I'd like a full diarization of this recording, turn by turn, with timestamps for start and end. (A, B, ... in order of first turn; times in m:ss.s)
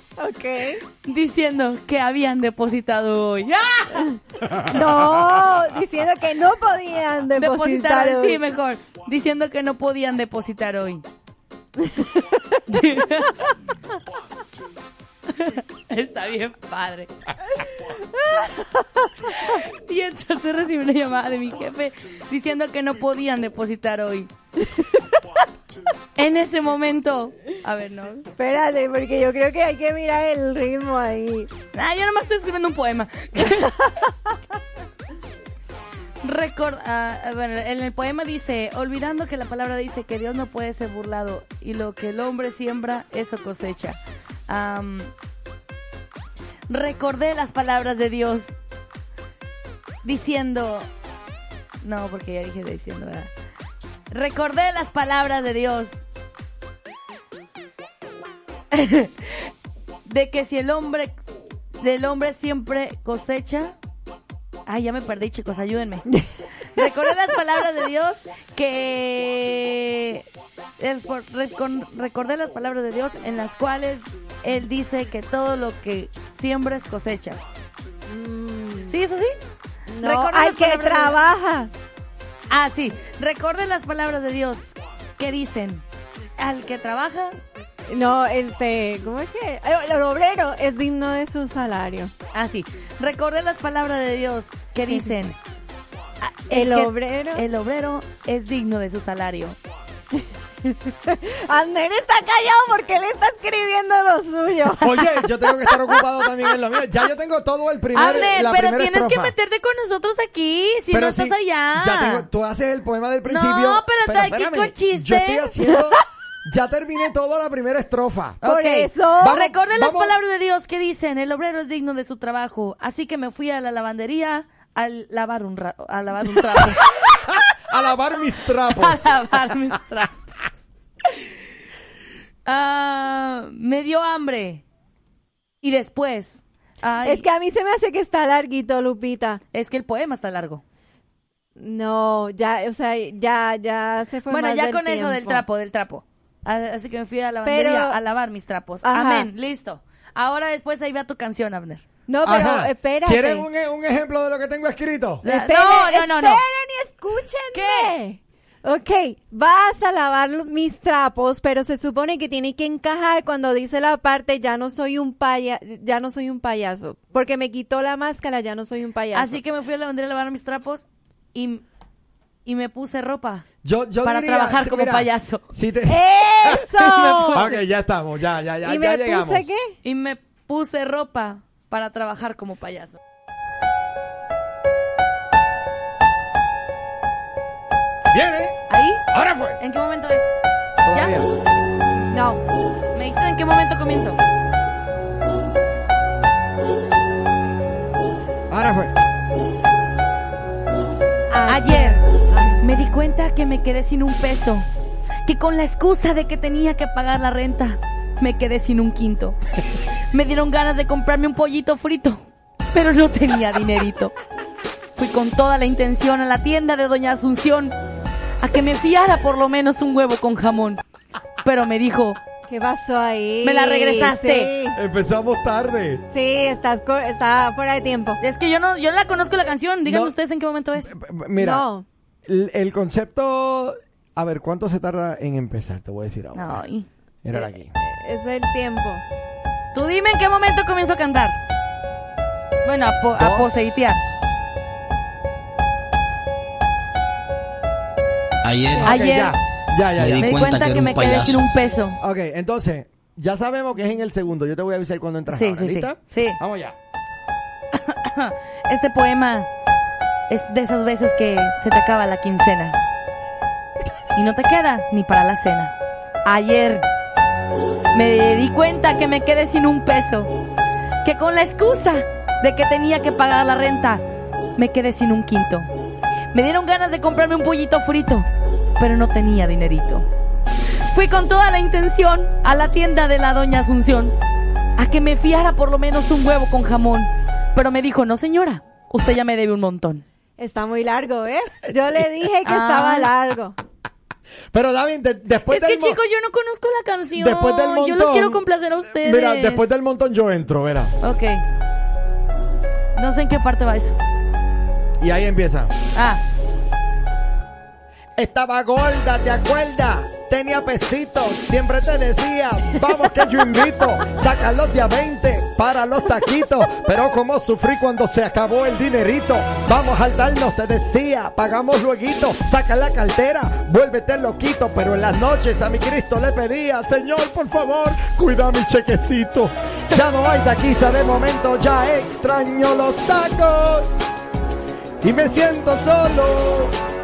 0:00.2-0:00.8 A
0:01.0-0:04.0 B
0:04.1-0:08.4 A
0:07.4-0:11.0 B
0:12.7-0:13.5 B
0:15.3-0:17.1 B
0:19.3-0:24.3 B
0:26.2-0:28.3 B
0:28.4-0:31.5 A
0:31.7-0:33.8 B
0:36.2-0:45.1 B
0:46.7-0:48.6 B
0:50.0-0:50.9 B
0:51.8-0:53.3 B
0:54.1-0:56.0 B
0:58.7-0:59.5 B
1:00.0-1:01.2 B
1:01.8-1:03.7 B
1:04.7-1:06.1 B
1:06.7-1:10.3 B
1:10.8-1:17.4 B
1:18.1-1:18.9 A
1:18.9-1:19.4 B
1:19.9-1:21.7 A
1:20.0-1:21.2 B
1:22.5-1:25.8 B
1:26.4-1:27.4 B
1:27.9-1:32.1 A
1:32.3-1:35.4 B
1:34.9-1:35.2 A
1:36.2-1:39.6 B
1:36.5-1:37.4 A
1:40.6-1:46.0 A
1:44.8-1:49.3 C
1:47.9-1:52.3 B
1:50.9-1:58.4 C
1:53.2-1:55.6 B
1:58.4-2:07.0 B
1:58.4-1:59.5 A
1:59.2-2:00.2 C
2:07.0-2:09.4 C
2:08.7-2:10.4 B
2:12.5-2:14.6 B
2:15.6-2:17.3 B
2:17.0-2:19.4 A
2:19.5-2:20.6 B
2:21.6-2:25.4 A
2:24.3-2:31.8 B
2:27.4-2:28.0 A
2:28.8-2:29.3 A
2:32.1-2:33.5 A
2:32.2-2:35.2 C
2:35.2-2:36.4 B
2:35.2-2:49.4 A
2:37.5-2:37.9 B
2:49.1-2:51.6 B
2:52.5-2:53.5 B
2:53.6-2:56.6 C
2:54.0-2:55.4 B
2:55.9-2:57.6 A
2:56.8-2:57.5 B
2:57.3-2:59.5 C
2:58.6-2:59.7 A
2:59.8-3:03.0 B
3:08.1-3:09.6 C
3:08.7-3:09.0 B
3:09.6-3:10.3 B
3:10.8-3:11.3 C
3:10.9-3:11.2 B
3:12.1-3:12.4 A
3:12.9-3:14.2 B
3:18.5-3:19.0 C
3:21.3-3:22.6 A
3:21.5-3:22.0 B
3:22.6-3:24.7 B
3:25.3-3:29.4 B
3:30.1-3:34.1 B
3:35.0-3:37.8 B
3:38.4-3:40.8 B
3:41.4-3:42.2 B
3:42.5-3:44.8 A
3:43.4-3:44.5 B
3:44.8-3:46.0 C
3:46.1-3:48.2 A
3:48.2-3:50.9 B
3:49.8-3:50.2 C
3:50.8-3:51.7 C
3:51.4-3:51.8 A
3:52.3-3:56.6 C
3:56.3-3:56.9 B
3:57.2-3:57.7 C
3:57.4-3:59.0 A
3:59.7-4:01.4 B
4:02.6-4:04.0 B
4:03.2-4:04.3 C
4:08.4-4:08.9 D
4:08.8-4:10.4 C
4:08.8-4:09.4 B
4:10.0-4:11.4 D
4:10.2-4:12.0 B
4:12.0-4:16.8 C
4:15.3-4:16.4 B
4:17.8-4:19.5 B
4:20.3-4:22.8 B
4:24.2-4:25.7 B
4:26.2-4:26.9 B
4:27.9-4:30.3 B
4:31.0-4:34.0 B
4:34.6-4:35.7 B
4:36.3-4:38.3 B
4:38.8-4:40.1 B
4:40.9-4:44.2 B
4:44.8-4:50.0 B
4:50.4-4:53.6 A
4:52.4-4:53.1 B
4:54.5-4:56.0 C
4:55.5-4:59.7 B
4:57.2-5:01.0 C
5:01.0-5:01.4 B
5:03.0-5:04.0 B
5:05.0-5:05.7 C
5:06.0-5:06.2 B
5:08.2-5:33.9 C
5:35.0-5:36.8 C